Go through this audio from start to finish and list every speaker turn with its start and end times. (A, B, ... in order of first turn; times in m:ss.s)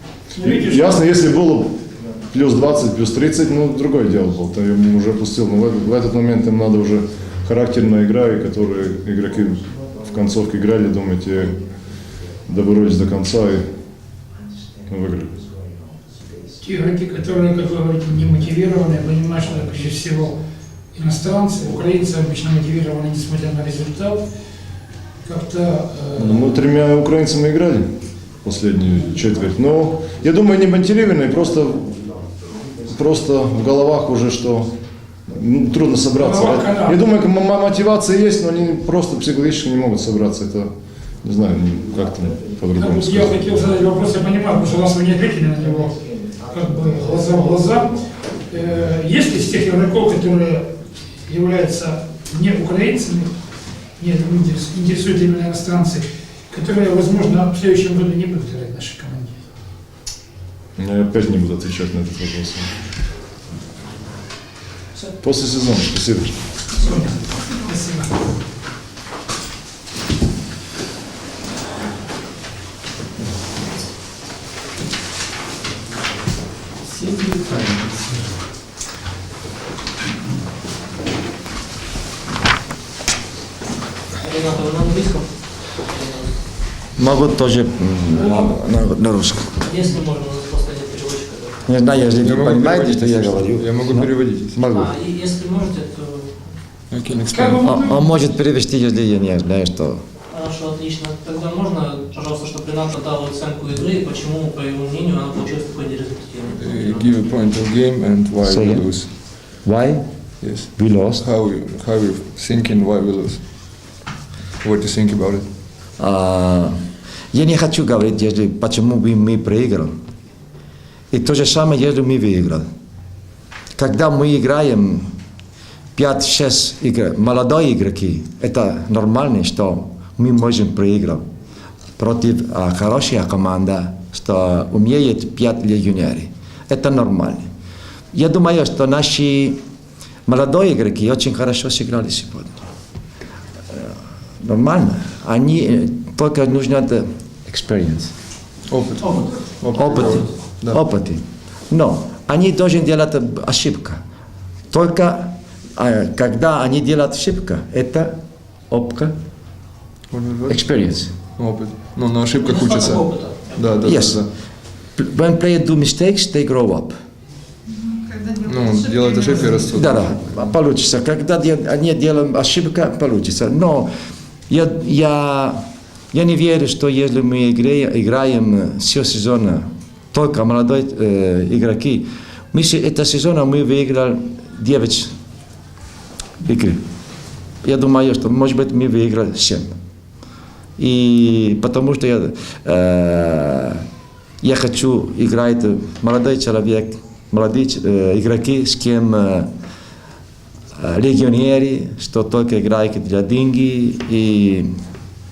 0:00.3-0:01.1 A
0:00.4-0:01.8 B
0:02.3-0:11.6 B
0:12.4-0:13.6 B
0:14.9-0:15.4 B
0:16.6-0:20.4 A
0:20.9-0:24.2 A
0:25.2-0:26.6 A
0:26.2-0:27.9 B
0:28.4-0:31.9 B
0:32.9-0:34.7 B
0:35.3-0:40.7 B
0:36.2-0:37.0 A
0:41.2-0:43.4 B
0:42.8-0:50.7 A
0:51.3-0:53.3 A
0:54.0-0:59.3 A
1:00.8-1:02.7 B
1:05.2-1:06.4 B
1:06.8-1:08.1 A
1:24.2-1:26.4 C
1:27.0-1:29.6 D
1:28.1-1:28.5 C
1:29.6-1:31.6 C
1:31.7-1:34.9 D
1:32.2-1:34.7 E
1:34.7-1:36.4 C
1:36.9-1:37.7 E
1:37.3-1:38.1 A
1:37.6-1:40.0 D
1:40.3-1:47.2 C
1:46.6-1:49.1 E
1:48.4-1:51.2 D
1:50.4-1:53.8 E
1:54.6-1:55.5 E
1:56.0-1:56.8 D
1:57.3-1:59.9 D
2:01.1-2:02.7 D
2:03.8-2:05.1 D
2:05.9-2:11.2 D
2:12.0-2:17.5 D
2:18.1-2:19.6 D
2:20.3-2:22.6 D
2:23.7-2:28.1 D
2:28.7-2:30.8 E
2:29.7-2:34.0 D
2:34.7-2:39.2 D
2:40.1-2:40.8 E
2:40.5-2:41.1 D
2:41.4-2:44.3 E
2:42.3-2:43.8 C
2:43.8-2:44.3 D
2:44.8-2:47.0 D
2:48.4-2:50.4 E
2:49.7-2:53.9 D
2:54.5-3:05.1 D
3:06.4-3:06.8 D
3:07.6-3:09.8 D
3:10.8-3:13.8 D
3:14.4-3:19.5 D
3:20.7-3:24.7 D